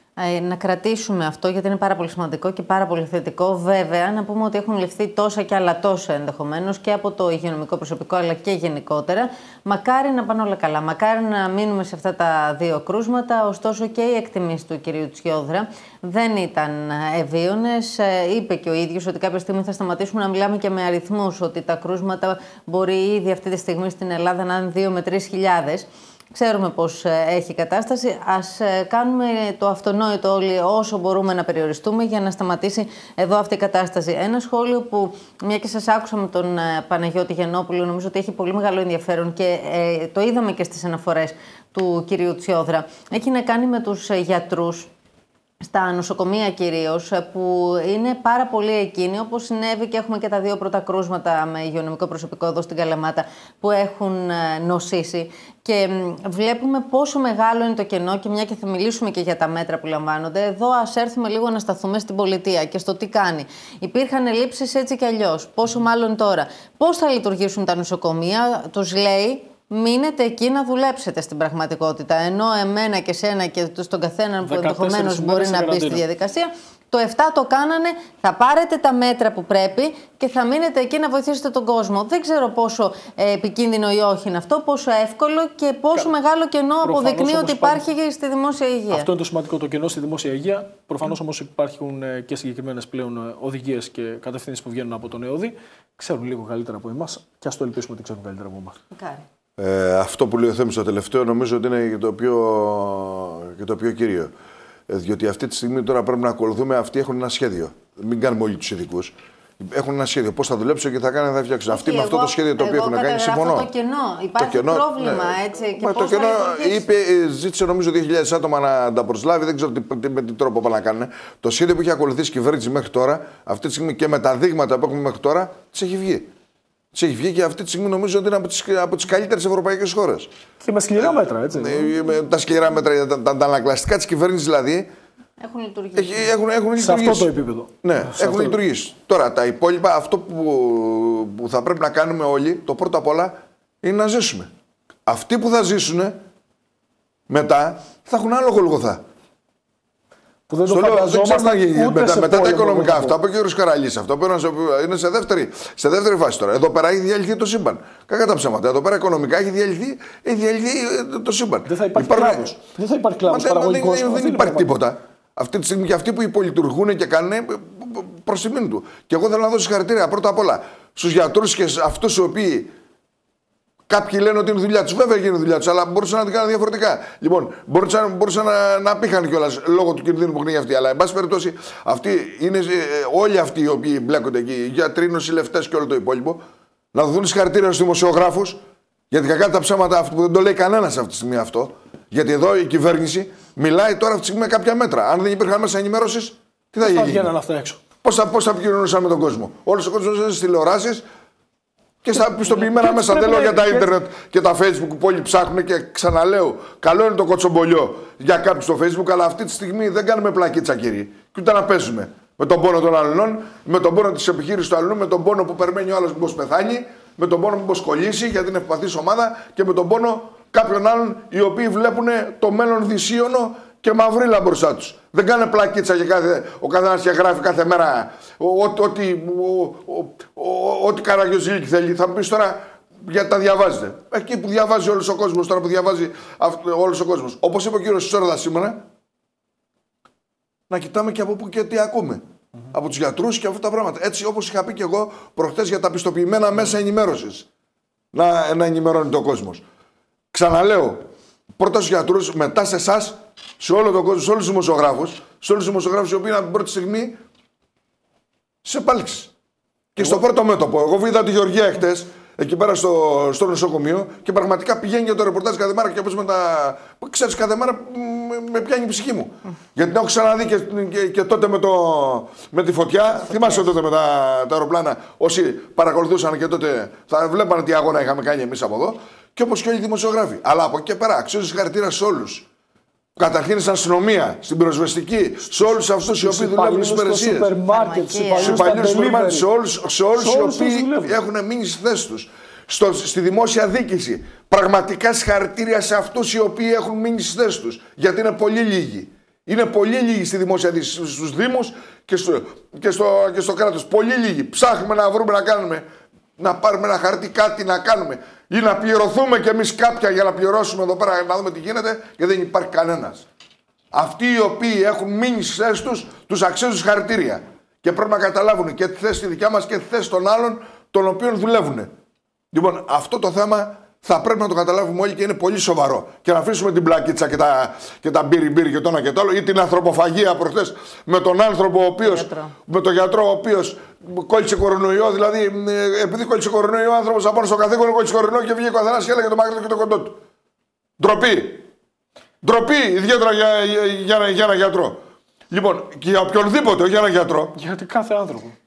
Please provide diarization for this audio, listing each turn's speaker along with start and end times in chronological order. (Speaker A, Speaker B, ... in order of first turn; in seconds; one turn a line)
Speaker A: 0.2-44.9
Speaker A: 45.6-89.1
Speaker B: 74.5-76.0
Speaker B: 86.8-87.8
Speaker B: 88.9-98.8
Speaker A: 98.9-99.2
Speaker C: 99.6-104.3
Speaker C: 104.9-113.7
Speaker A: 111.7-116.9
Speaker C: 114.4-126.3
Speaker C: 126.9-130.3
Speaker B: 130.6-131.9
Speaker C: 131.0-134.9
Speaker A: 135.4-136.3
Speaker C: 135.9-144.5
Speaker B: 136.8-138.6
Speaker C: 145.1-146.2
Speaker C: 147.3-149.0
Speaker B: 150.5-153.2
Speaker C: 150.7-162.6
Speaker B: 161.7-164.7
Speaker C: 163.2-172.7
Speaker C: 173.9-186.4
Speaker C: 186.9-188.6
Speaker C: 189.1-197.3
Speaker B: 196.8-197.8
Speaker C: 198.0-201.1
Speaker C: 202.0-238.8
Speaker B: 202.2-203.9
Speaker C: 240.7-247.4
Speaker C: 248.1-249.6
Speaker C: 250.3-257.2
Speaker C: 258.6-259.3
Speaker C: 259.9-282.5
Speaker C: 283.2-287.6
Speaker B: 285.6-289.5
Speaker A: 287.7-288.9
Speaker C: 288.4-305.9
Speaker B: 290.1-291.2
Speaker C: 306.4-313.3
Speaker C: 313.9-321.9
Speaker C: 322.5-340.2
Speaker A: 332.0-332.5
Speaker C: 341.0-341.7
Speaker C: 342.4-347.6
Speaker B: 347.6-348.6